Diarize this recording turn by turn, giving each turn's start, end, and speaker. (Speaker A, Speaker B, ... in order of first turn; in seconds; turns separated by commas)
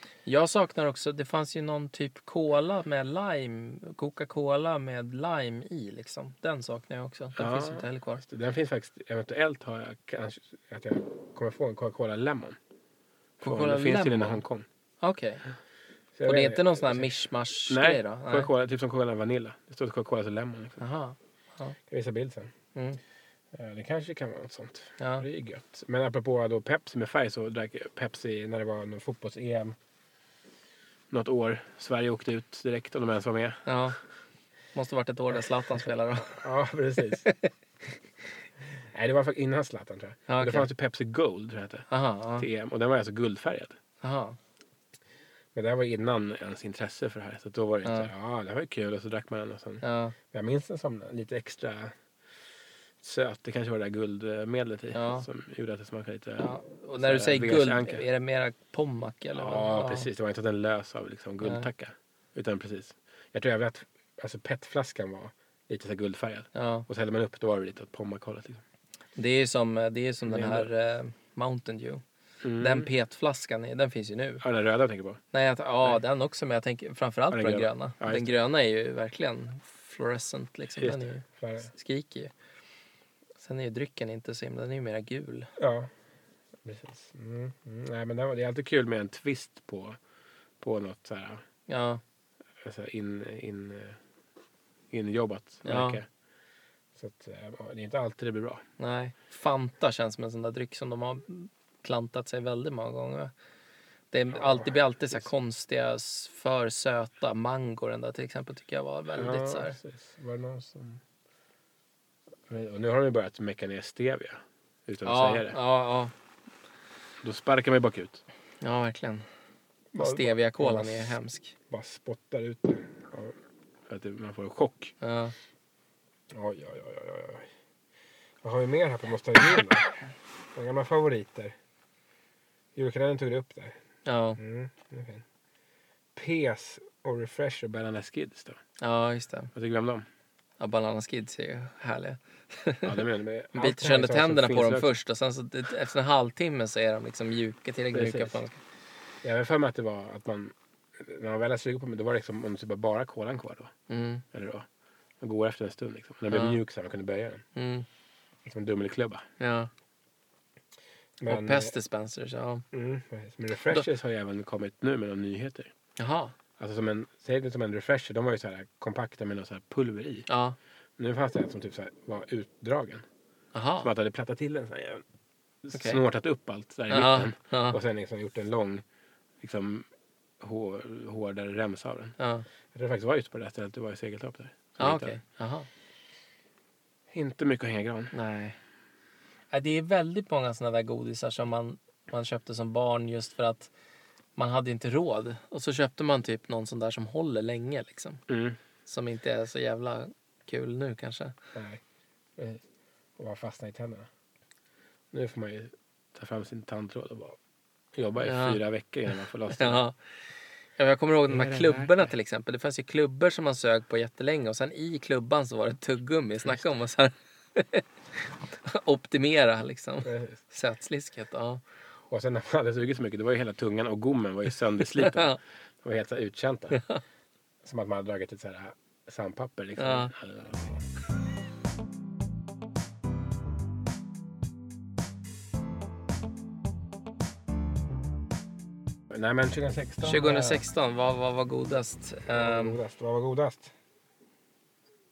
Speaker A: 0.3-8.2, Speaker B: 7.3-12.6, Speaker A: 13.4-14.4, Speaker B: 13.4-14.7, Speaker A: 15.0-15.4, Speaker B: 16.1-20.8, Speaker A: 16.3-18.5, Speaker A: 20.8-21.8, Speaker B: 21.9-22.5, Speaker B: 23.5-29.8, Speaker A: 25.0-25.3, Speaker B: 31.1-33.6, Speaker A: 33.7-34.0, Speaker A: 34.7-36.5, Speaker B: 36.3-37.3, Speaker A: 37.2-37.5, Speaker B: 38.8-41.9, Speaker A: 40.3-40.7, Speaker A: 41.9-42.5, Speaker B: 42.4-43.8, Speaker A: 44.0-44.4, Speaker B: 45.5-52.0, Speaker A: 47.9-48.1, Speaker A: 49.8-50.1, Speaker B: 53.0-58.1, Speaker A: 54.9-55.3, Speaker A: 56.4-60.1, Speaker B: 59.4-68.6, Speaker A: 61.4-61.7, Speaker A: 66.5-66.9, Speaker A: 69.2-72.0, Speaker B: 70.2-70.7, Speaker B: 72.4-72.9, Speaker A: 72.6-74.4, Speaker B: 74.4-75.2, Speaker A: 75.3-82.3, Speaker B: 77.3-78.4, Speaker B: 80.8-81.7, Speaker A: 83.4-85.5, Speaker B: 85.6-85.9, Speaker B: 86.6-90.0, Speaker B: 90.6-91.4, Speaker A: 91.7-92.0, Speaker B: 92.6-94.0, Speaker B: 94.9-96.1, Speaker A: 95.7-96.0, Speaker B: 97.0-98.6, Speaker A: 98.8-103.3, Speaker A: 104.1-109.8, Speaker B: 104.3-105.3, Speaker B: 109.1-111.0, Speaker B: 112.5-115.6, Speaker A: 115.0-116.1, Speaker B: 117.2-118.2, Speaker A: 118.6-119.3, Speaker B: 119.9-121.2, Speaker A: 120.0-121.5, Speaker B: 121.7-123.3, Speaker B: 123.9-125.0, Speaker A: 125.0-125.3, Speaker B: 126.3-127.5, Speaker B: 128.4-129.9, Speaker B: 130.6-131.6, Speaker B: 132.8-133.8, Speaker A: 134.1-134.4, Speaker B: 134.4-135.2, Speaker B: 136.1-138.6, Speaker A: 138.8-139.5, Speaker B: 139.5-140.1, Speaker A: 140.6-148.6, Speaker B: 142.8-144.9, Speaker B: 147.9-148.4, Speaker B: 149.2-153.7, Speaker A: 153.9-154.2, Speaker B: 154.3-154.7, Speaker B: 155.2-157.4, Speaker A: 156.3-156.6, Speaker A: 157.6-157.9, Speaker B: 158.4-159.2, Speaker A: 159.4-159.7, Speaker B: 161.2-161.8, Speaker A: 161.3-162.7, Speaker B: 162.7-165.7, Speaker A: 166.0-166.3, Speaker B: 166.6-170.3, Speaker A: 170.3-170.6, Speaker B: 171.0-173.0, Speaker A: 173.5-173.9, Speaker B: 173.8-175.0, Speaker B: 175.6-178.8, Speaker A: 175.7-176.0, Speaker A: 176.9-177.8, Speaker B: 179.4-179.9, Speaker B: 180.4-182.2, Speaker A: 182.2-182.5, Speaker B: 182.7-185.2, Speaker A: 184.8-185.7, Speaker B: 187.1-188.1, Speaker A: 188.1-188.6, Speaker A: 189.5-193.7, Speaker A: 194.4-198.2, Speaker B: 198.3-198.6, Speaker A: 198.9-201.3, Speaker B: 201.5-201.8, Speaker B: 202.4-202.6, Speaker B: 203.2-204.1, Speaker B: 205.1-207.4, Speaker B: 207.9-209.8, Speaker A: 208.2-208.6, Speaker A: 209.6-209.9, Speaker A: 210.8-217.9, Speaker B: 211.3-212.1, Speaker A: 218.5-221.6, Speaker B: 220.1-220.4, Speaker B: 222.1-226.8, Speaker A: 225.0-225.4, Speaker A: 226.7-227.0, Speaker B: 227.6-230.9, Speaker A: 229.8-230.1, Speaker B: 239.1-240.6, Speaker A: 240.0-242.8, Speaker B: 242.3-243.7